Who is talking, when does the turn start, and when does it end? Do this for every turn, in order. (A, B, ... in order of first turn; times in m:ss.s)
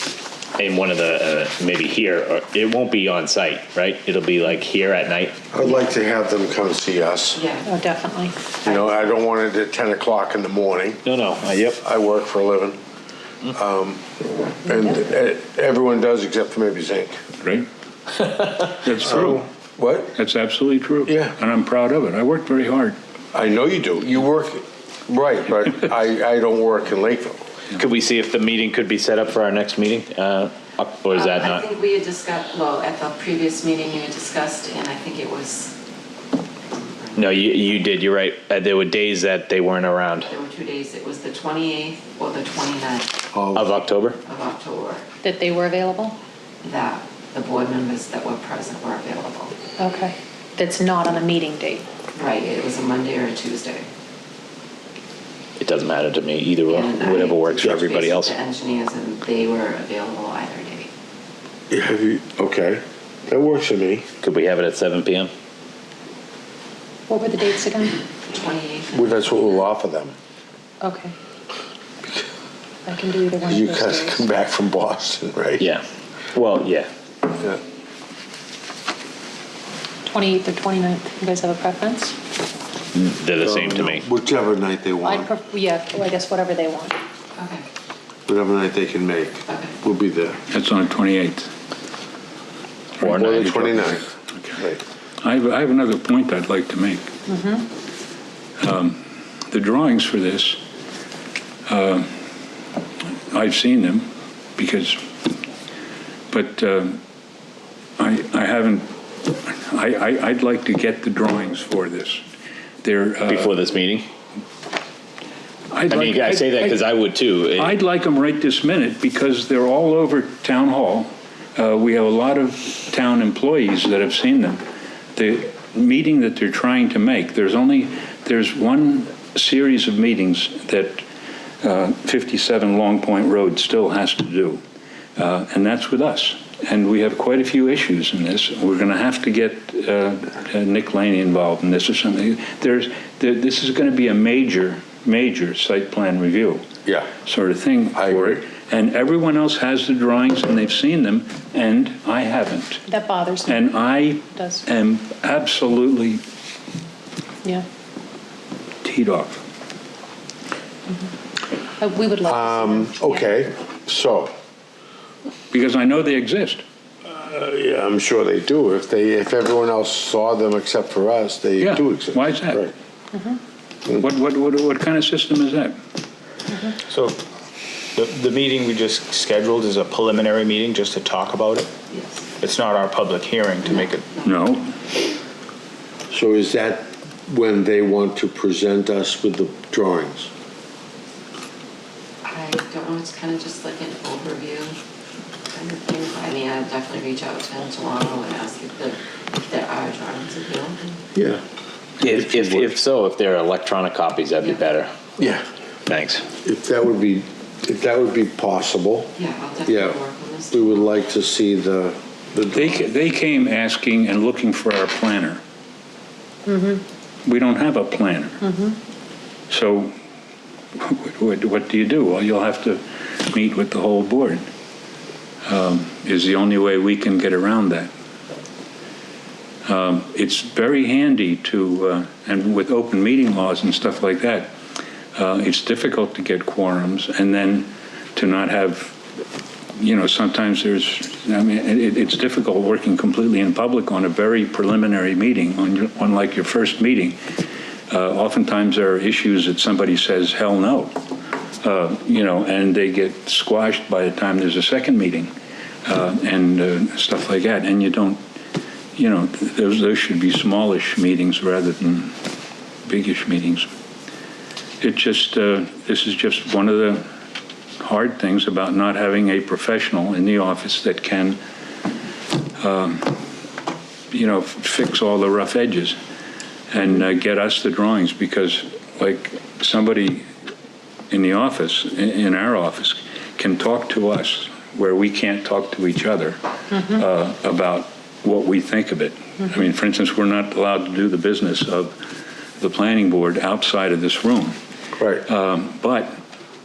0:00.6-0:05.4 A
0:05.5-0:07.4 B
0:07.4-0:07.7 C
0:07.7-0:08.3 D
0:08.6-0:08.9 C
0:08.6-0:11.0 B
0:11.0-0:11.8 A
0:11.8-0:12.8 B
0:13.5-0:14.0 B
0:14.6-0:17.2 B
0:17.4-0:17.7 E
0:18.3-0:18.6 A
0:18.8-0:19.4 E
0:19.0-0:20.1 B
0:20.1-0:23.0 E
0:21.1-0:21.4 B
0:23.3-0:27.4 B
0:27.8-0:31.6 A
0:31.1-0:35.8 C
0:36.7-0:37.6 C
0:37.2-0:40.3 A
0:40.3-0:43.2 C
0:43.3-0:43.7 B
0:43.5-0:44.2 A
0:44.2-0:45.0 C
0:45.2-0:46.1 D
0:46.6-0:49.5 C
0:49.8-0:51.8 D
0:52.1-0:53.9 C
0:55.6-0:58.4 A
0:56.6-1:00.9 C
1:01.7-1:04.1 B
1:04.2-1:05.3 A
1:07.1-1:07.9 D
1:08.3-1:09.0 C
1:08.9-1:10.1 B
1:10.8-1:11.1 D
1:12.8-1:14.2 D
1:13.4-1:15.6 B
1:15.6-1:16.9 A
1:20.1-1:22.1 D
1:22.9-1:24.0 A
1:23.4-1:25.3 B
1:25.0-1:26.9 D
1:27.4-1:27.6 C
1:28.3-1:30.4 B
1:29.5-1:29.7 C
1:30.5-1:31.5 E
1:33.0-1:34.6 E
1:33.0-1:34.8 B
1:35.2-1:37.1 E
1:37.3-1:37.6 D
1:38.6-1:40.6 E
1:41.7-1:42.1 E
1:43.3-1:45.0 E
1:46.3-1:47.0 E
1:48.0-1:52.2 E
1:52.8-1:53.6 E
1:53.2-1:54.0 A
1:55.7-1:56.8 E
1:55.9-1:57.8 A
1:57.5-2:04.6 E
2:05.2-2:11.0 E
2:11.6-2:14.6 E
2:15.2-2:26.6 E
2:27.2-2:32.8 E
2:28.0-2:28.4 B
2:32.9-2:33.6 D
2:33.4-2:36.2 E
2:38.8-2:39.4 E
2:41.8-2:43.3 D
2:42.2-2:44.3 B
2:45.5-2:46.6 E
2:47.1-2:52.7 B
2:51.6-2:52.6 E
2:53.1-2:53.4 D
2:53.9-2:55.8 E
2:56.8-2:57.2 F
2:58.0-3:01.7 F
3:01.9-3:02.2 C
3:02.4-3:04.0 F
3:03.6-3:04.3 C
3:04.2-3:04.6 E
3:06.1-3:10.3 B
3:12.2-3:14.8 C
3:15.5-3:21.0 C
3:21.1-3:21.4 B
3:22.0-3:24.9 A
3:22.1-3:22.7 B
3:25.2-3:25.4 B
3:25.9-3:26.2 A
3:26.4-3:29.1 B
3:29.2-3:30.7 C
3:29.6-3:30.0 B
3:30.5-3:32.8 B
3:32.5-3:35.4 E
3:36.4-3:36.8 D
3:37.2-3:38.4 E
3:38.5-3:38.8 D
3:39.5-3:39.9 E
3:40.8-3:44.4 E
3:45.4-3:47.9 E
3:49.6-3:54.5 E
3:55.1-3:59.0 E
3:59.8-4:07.2 E
4:07.9-4:10.9 E
4:11.6-4:15.3 E
4:15.8-4:18.2 E
4:18.9-4:22.1 E
4:22.8-4:23.6 E
4:24.8-4:27.0 E
4:27.8-4:31.4 E
4:32.6-4:33.2 E
4:34.1-4:36.0 E
4:36.7-4:40.2 E
4:41.1-4:52.0 E
4:52.6-4:54.6 E
4:55.0-4:55.2 B
4:55.2-4:56.1 E